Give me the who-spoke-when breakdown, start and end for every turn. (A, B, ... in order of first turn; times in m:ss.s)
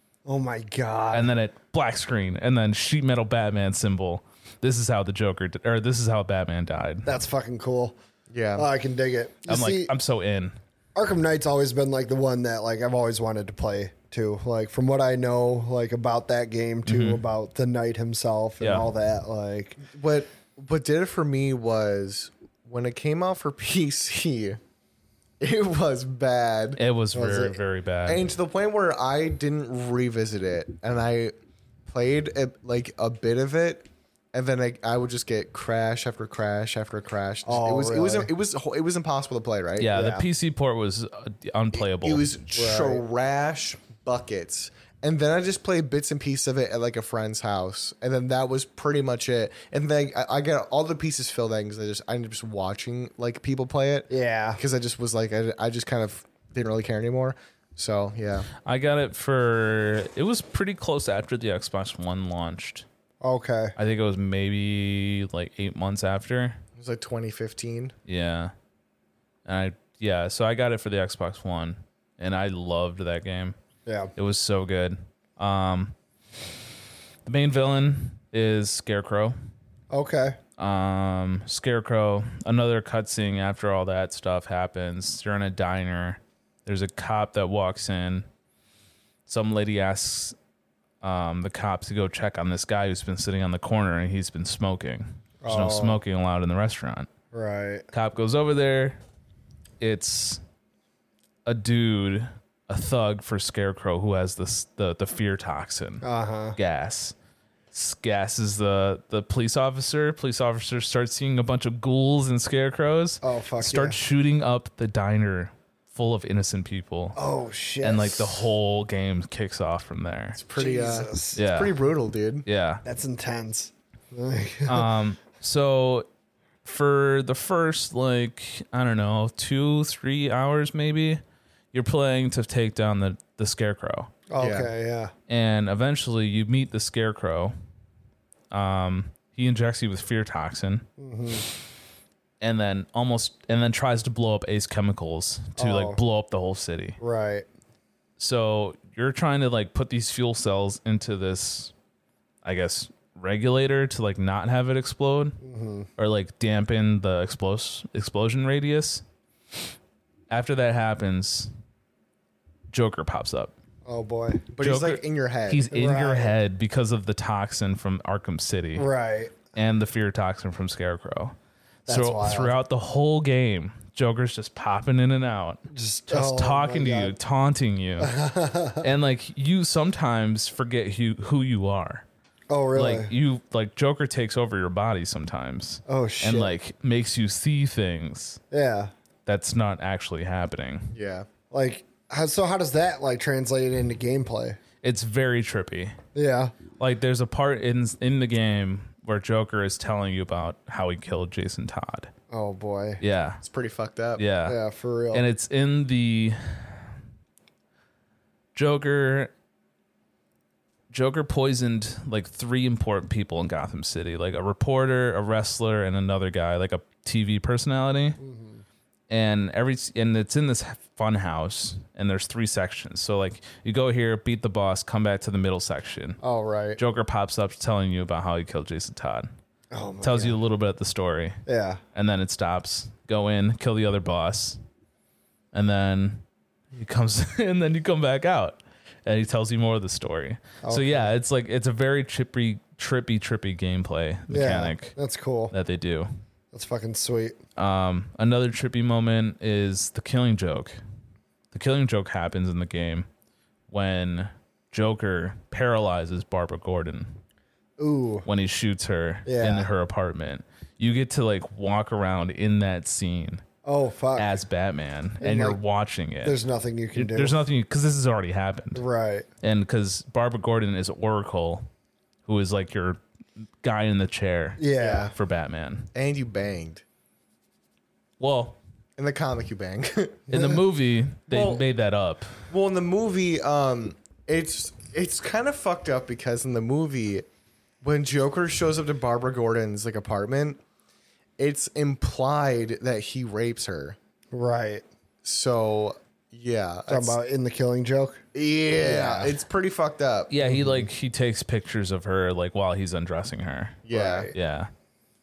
0:00.2-0:01.3 A
0:01.1-0:07.1 B
0:07.0-0:08.0 A
0:08.3-0:08.7 C
0:08.6-0:09.9 A
0:09.5-0:10.6 B
0:10.9-0:19.8 A
0:16.8-0:17.2 B
0:18.6-0:18.9 B
0:19.8-0:24.6 C
0:25.4-0:26.8 C
0:26.8-0:28.3 B
0:27.1-0:27.6 A
0:28.0-0:31.3 C
0:31.9-0:39.9 C
0:37.4-0:38.3 A
0:39.8-0:42.2 B
0:39.9-0:40.2 A
0:41.8-0:58.5 C
0:42.5-0:43.0 A
0:54.1-0:54.6 A
0:58.6-1:02.8 B
1:03.2-1:03.7 A
1:03.8-1:06.6 B
1:06.8-1:07.9 C
1:08.1-1:08.5 B
1:09.4-1:13.6 B
1:13.8-1:14.1 A
1:14.2-1:15.9 B
1:17.2-1:19.3 B
1:19.9-1:20.4 A
1:20.6-1:28.2 B
1:29.3-1:30.4 B
1:31.0-1:37.1 B
1:35.4-1:36.0 A
1:37.3-1:37.9 A
1:37.9-1:39.0 B
1:39.8-1:40.4 B
1:41.4-1:46.0 B
1:46.0-1:46.6 A
1:46.6-1:47.1 B
1:47.7-1:57.2 B
1:53.2-1:54.0 A
1:57.2-1:58.5 A
1:57.8-2:00.4 B
2:00.4-2:02.4 C
2:00.6-2:01.4 A
2:01.3-2:01.7 B
2:02.4-2:02.8 B
2:02.8-2:04.9 A
2:04.6-2:06.1 B
2:06.6-2:11.2 B
2:11.7-2:14.1 B
2:14.3-2:15.1 A
2:14.4-2:14.7 C
2:15.3-2:17.5 B
2:18.5-2:20.9 B
2:21.0-2:21.4 A
2:22.4-2:27.0 B
2:25.6-2:26.0 A
2:27.0-2:27.5 A
2:28.2-2:31.7 B
2:32.4-2:35.4 B
2:35.4-2:35.9 A
2:36.0-2:39.0 B
2:40.3-2:41.5 B
2:42.7-2:43.5 B
2:43.8-2:44.4 A
2:44.5-2:45.7 C
2:44.6-2:48.9 B
2:45.7-2:46.4 A
2:48.8-2:49.4 A
2:49.5-2:51.4 B
2:51.8-2:52.6 A
2:51.9-2:58.1 B
2:55.7-2:57.2 A
2:58.0-2:58.9 A
2:58.8-3:02.0 B
3:02.5-3:03.1 A
3:02.7-3:08.4 B
3:05.9-3:06.5 A
3:08.5-3:08.9 A
3:09.2-3:10.9 B
3:10.9-3:11.3 C
3:11.5-3:14.6 A
3:14.8-3:16.0 B
3:16.1-3:16.5 A
3:16.8-3:22.1 B
3:22.3-3:23.0 A
3:23.0-3:23.4 B
3:23.4-3:24.2 C
3:24.2-3:24.6 B
3:24.4-3:25.3 A
3:25.1-3:26.8 B
3:28.5-3:29.3 B
3:30.9-3:38.2 B
3:38.2-3:38.6 A
3:39.1-3:46.2 B
3:46.2-3:46.8 A
3:46.8-3:49.3 B
3:49.7-3:50.4 A
3:50.0-3:51.4 B
3:51.4-3:51.8 A
3:51.9-3:54.6 B
3:55.5-4:04.9 B
4:00.6-4:01.1 A
4:04.3-4:05.5 A
4:05.5-4:06.1 B
4:06.5-4:07.4 A
4:07.6-4:10.8 B
4:11.5-4:13.1 B
4:13.7-4:17.1 B
4:17.8-4:18.3 A
4:18.2-4:23.4 B
4:19.2-4:19.7 A
4:23.6-4:24.4 A
4:24.2-4:26.4 B
4:25.2-4:25.6 A
4:26.2-4:27.4 A
4:26.9-4:28.8 B
4:28.7-4:29.3 A
4:29.4-4:31.7 B
4:32.2-4:33.0 B
4:33.6-4:34.6 B
4:34.6-4:35.1 A
4:34.8-4:35.1 C
4:35.1-4:35.9 B
4:35.9-4:36.8 C
4:38.2-4:38.6 B
4:39.0-4:40.3 C
4:40.3-4:42.4 B
4:40.3-4:40.6 A
4:41.3-4:41.6 C
4:42.5-4:47.2 C
4:47.8-4:50.6 C
4:51.4-4:54.0 C
4:54.3-4:54.8 A
4:55.2-4:57.2 C
4:56.9-4:58.2 A
4:58.3-5:00.3 C
4:58.8-4:59.4 A
5:00.3-5:03.8 B
5:00.5-5:00.9 A
5:03.8-5:04.3 C
5:03.9-5:04.3 A
5:04.3-5:04.7 B